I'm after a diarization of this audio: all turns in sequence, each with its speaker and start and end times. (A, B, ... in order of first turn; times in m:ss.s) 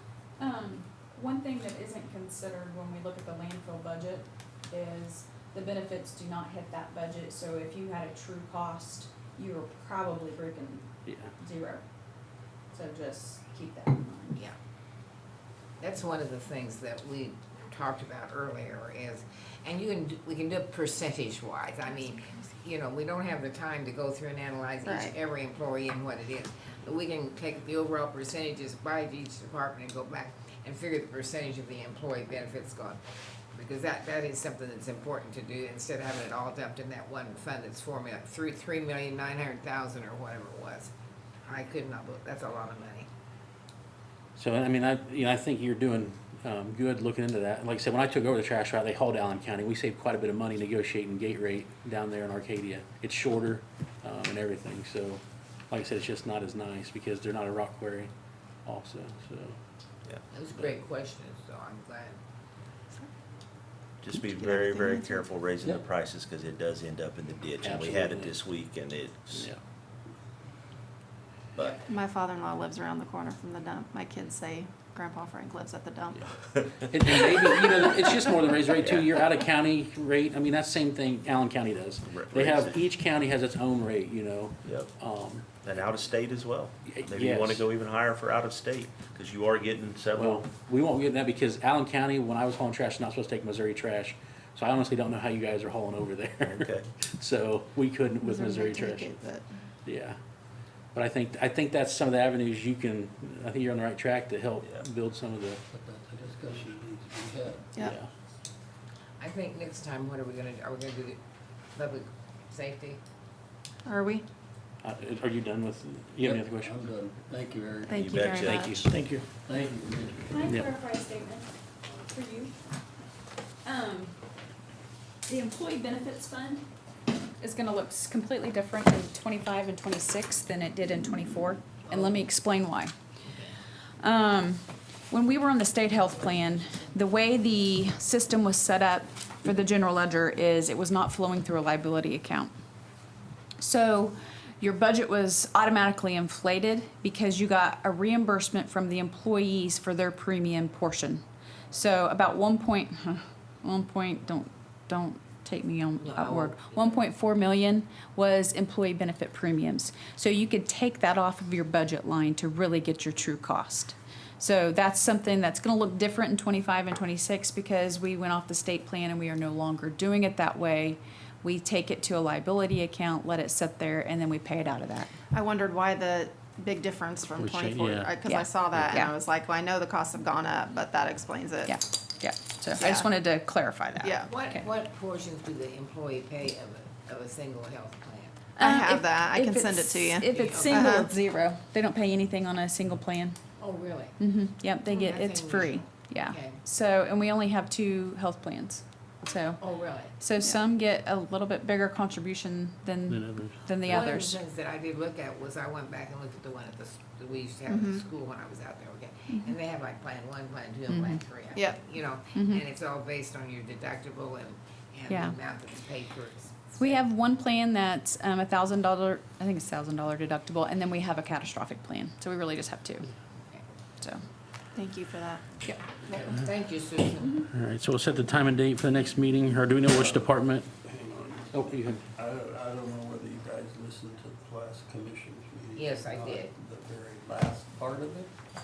0:00.4-0:11.8 A
0:11.1-0:11.3 B
0:12.7-0:14.4 A
0:15.8-0:33.0 C
0:24.8-0:25.1 D
0:33.5-0:40.9 C
0:41.4-0:43.1 C
0:44.4-0:58.1 B
0:58.6-0:59.6 B
1:00.3-1:02.2 C
1:04.0-1:09.5 E
1:04.1-1:05.3 D
1:07.6-1:08.3 B
1:09.3-1:09.6 B
1:11.6-1:11.8 E
1:11.9-1:16.2 D
1:16.8-1:17.9 E
1:16.9-1:25.5 B
1:18.8-1:19.1 E
1:22.0-1:22.8 E
1:24.6-1:24.9 E
1:25.6-1:30.5 E
1:26.9-1:27.7 B
1:30.2-1:39.1 B
1:36.5-1:36.8 E
1:38.2-1:39.5 D
1:39.8-1:40.2 B
1:40.9-1:45.6 B
1:45.7-1:47.7 F
1:47.8-1:48.1 B
1:49.2-1:51.2 C
1:51.8-1:53.0 C
1:53.8-1:54.2 D
1:54.8-1:56.7 B
1:56.2-1:58.0 F
1:57.9-1:58.9 D
1:57.9-1:58.8 E
1:57.9-1:58.9 A
1:58.4-1:59.3 B
1:59.2-2:00.4 F
2:00.3-2:02.5 A
2:03.6-2:04.2 A
2:05.3-2:06.6 A
2:07.4-2:12.9 A
2:11.9-2:12.2 C
2:13.3-2:13.6 C
2:14.0-2:22.5 A
2:23.6-2:55.1 A
2:36.0-2:37.0 C
2:55.3-3:01.7 D
2:57.4-2:58.1 B
2:58.3-2:59.1 A
3:01.7-3:04.7 A
3:02.8-3:03.1 D
3:04.0-3:04.3 D
3:04.3-3:08.4 C
3:08.6-3:13.4 A
3:08.6-3:11.1 D
3:10.3-3:11.0 C
3:13.6-3:14.2 C
3:14.2-3:19.6 A
3:14.8-3:16.6 C
3:19.6-3:20.1 C
3:20.2-3:24.4 A
3:23.1-3:24.0 B
3:23.8-3:37.0 C
3:27.7-3:28.0 D
3:30.9-3:31.2 A
3:32.3-3:32.6 A
3:35.1-3:35.4 A
3:36.8-3:43.1 A
3:44.8-3:45.4 D
3:46.1-3:46.4 D
3:46.2-3:47.4 C
3:47.5-3:50.7 B
3:49.9-3:58.3 F
3:51.5-3:52.1 B
3:55.8-3:56.5 C